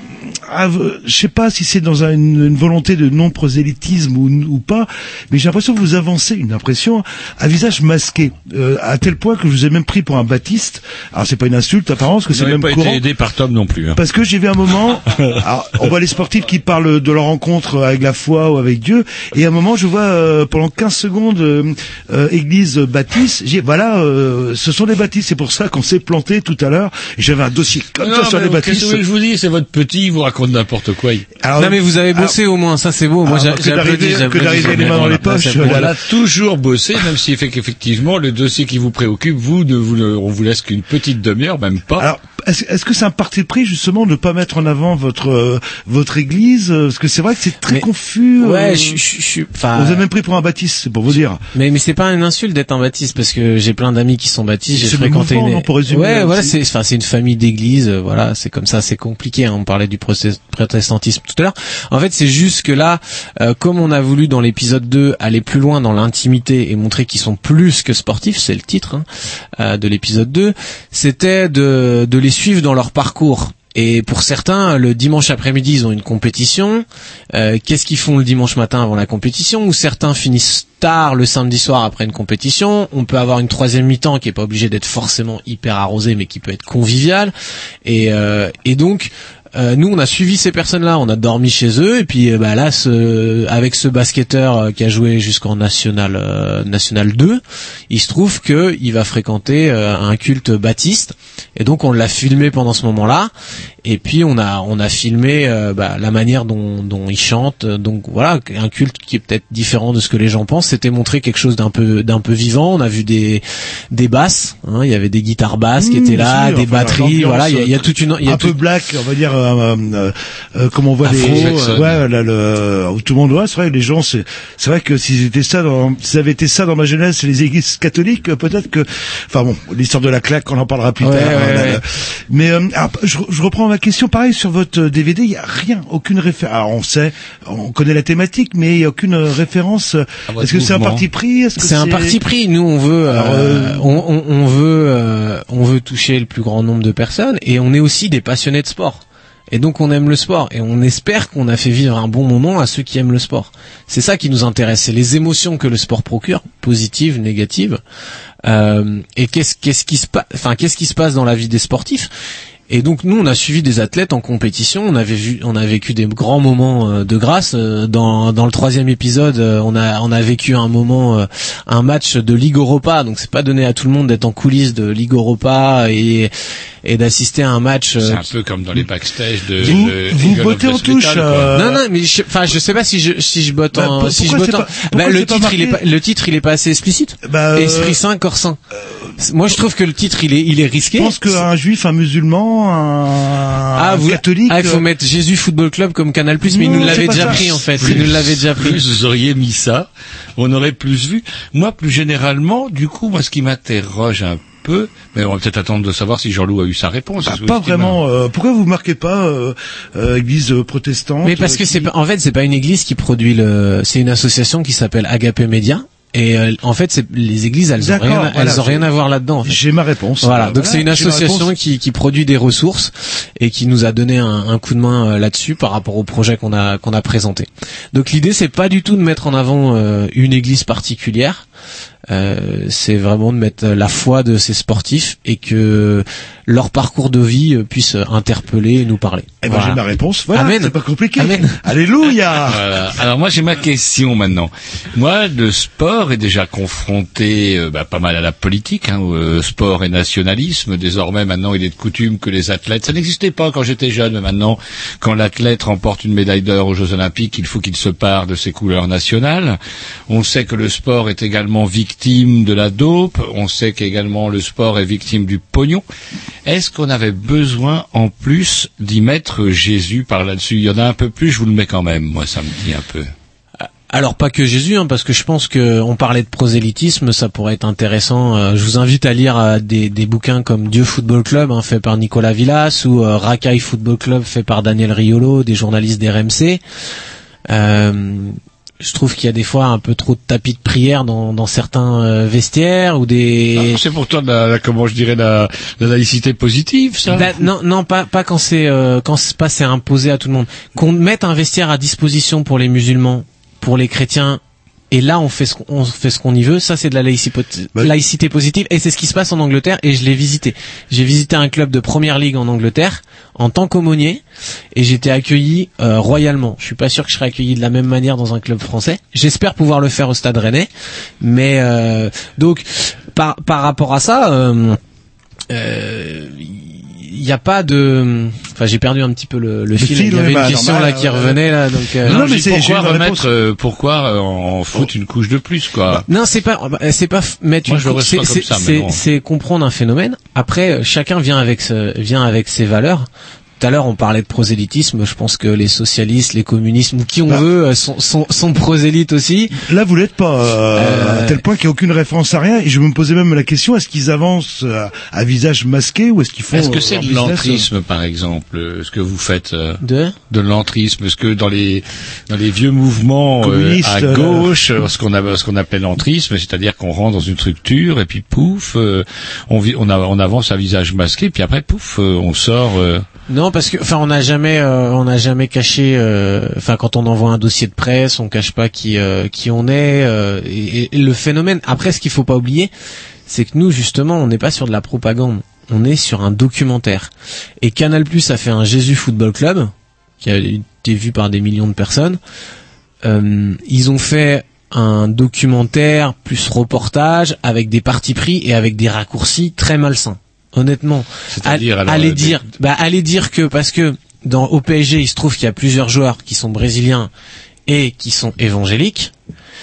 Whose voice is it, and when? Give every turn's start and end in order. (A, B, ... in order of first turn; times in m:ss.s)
0:00.3-0:13.0 A
0:12.3-0:14.0 B
0:13.9-0:29.0 A
0:28.0-0:31.3 B
0:31.4-0:32.4 A
0:31.6-0:35.9 C
0:33.2-0:35.9 A
0:34.4-0:42.1 B
0:42.0-0:49.0 A
0:48.4-0:50.0 C
0:49.7-0:51.4 A
0:51.5-1:09.0 C
0:54.7-0:56.6 A
1:09.6-1:27.3 C
1:27.8-1:43.3 C
1:43.8-1:58.6 C
1:55.8-2:22.2 A
2:01.0-2:01.8 C
2:01.1-2:02.0 B
2:11.0-2:11.8 C
2:20.3-2:21.0 B
2:21.6-2:37.8 C
2:23.1-2:24.0 A
2:38.4-2:42.1 C
2:42.7-2:56.3 C
2:56.8-2:58.3 C
2:58.0-3:01.6 B
2:59.6-3:01.8 A
3:01.5-3:08.6 C
3:03.7-3:05.8 A
3:07.2-3:08.0 A
3:09.2-3:11.4 C
3:10.8-3:14.8 A
3:13.8-3:18.8 C
3:16.5-3:18.0 A
3:17.0-3:28.0 B
3:27.2-3:31.9 A
3:31.2-3:39.6 C
3:37.8-3:38.9 A
3:39.4-3:41.6 A
3:40.2-3:51.4 C
3:52.1-3:59.8 C
3:59.4-4:02.7 A
4:00.3-4:01.6 C
4:02.4-4:25.8 B
4:26.4-4:33.1 B
4:33.9-4:46.6 C
4:47.5-4:53.8 C
4:53.6-4:57.4 B
4:57.1-5:04.4 C
5:04.9-5:14.2 C
5:14.7-5:20.7 C
5:21.2-5:24.8 C
5:25.5-5:32.2 C
5:29.8-5:31.4 A
5:32.0-5:33.3 A
5:32.0-5:36.0 B
5:36.1-5:43.1 C
5:37.6-5:39.0 B
5:43.6-5:49.5 C
5:49.6-5:57.7 A
5:50.8-5:51.4 C
5:56.5-6:13.0 B
5:59.8-6:00.1 C
6:03.4-6:04.5 A
6:13.3-6:22.7 C
6:23.3-6:32.2 C
6:33.0-6:47.1 C
6:41.3-6:42.5 B
6:47.7-6:49.1 C